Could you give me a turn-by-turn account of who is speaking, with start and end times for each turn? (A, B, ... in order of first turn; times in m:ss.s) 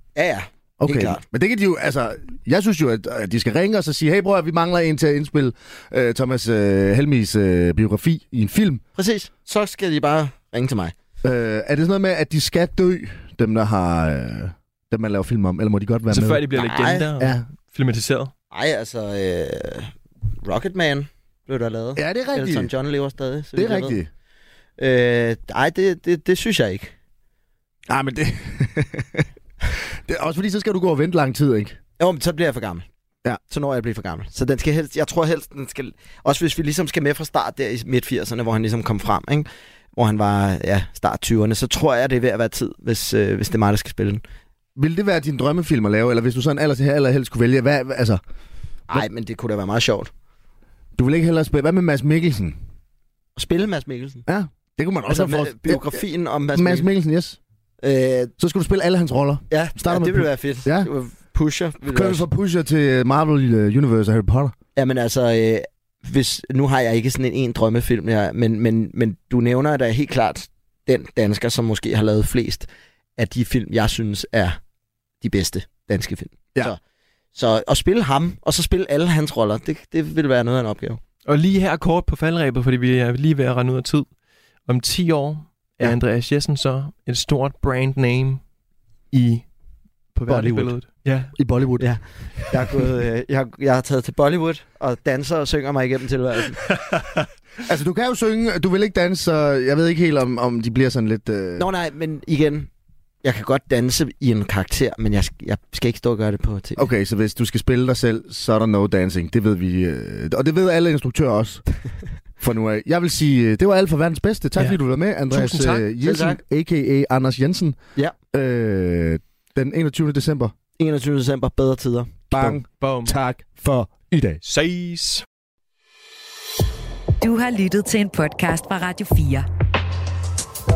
0:00.2-0:01.2 A
0:00.8-0:08.8 B
0:09.0-0:10.9 A
0:11.2-0:16.5 B
0:16.1-0:18.3 C
0:16.5-0:17.0 A
0:17.2-0:17.4 B
0:18.5-0:24.0 A
0:22.0-0:22.7 B
0:23.6-0:24.1 B
0:24.8-0:26.9 A
0:27.9-0:31.8 B
0:32.0-0:32.8 A
0:33.5-0:44.2 A
0:44.8-0:48.2 B
0:48.9-0:50.1 A
0:51.0-0:52.5 B
0:53.4-0:54.2 A
0:54.3-0:56.0 B
0:55.1-0:56.9 A
0:56.5-0:57.4 B
0:57.8-0:58.3 A
0:58.4-1:00.9 B
0:59.5-1:02.2 A
1:01.9-1:04.5 B
1:04.7-1:14.6 A
1:15.2-1:16.8 A
1:17.3-1:21.0 A
1:21.3-1:24.1 C
1:24.6-1:28.4 C
1:29.1-1:29.4 C
1:30.1-1:31.3 C
1:30.3-1:30.8 A
1:31.3-1:31.9 B
1:31.8-1:36.6 A
1:36.7-1:37.2 C
1:37.6-1:41.6 B
1:41.6-1:42.7 A
1:43.2-1:46.8 A
1:46.8-1:51.6 B
1:52.4-1:57.8 B
1:55.3-1:55.8 C
1:56.0-1:56.4 A
1:58.3-2:00.5 B
2:00.8-2:02.6 A
2:02.3-2:04.4 B
2:02.5-2:03.2 C
2:04.4-2:05.2 C
2:07.2-2:09.5 D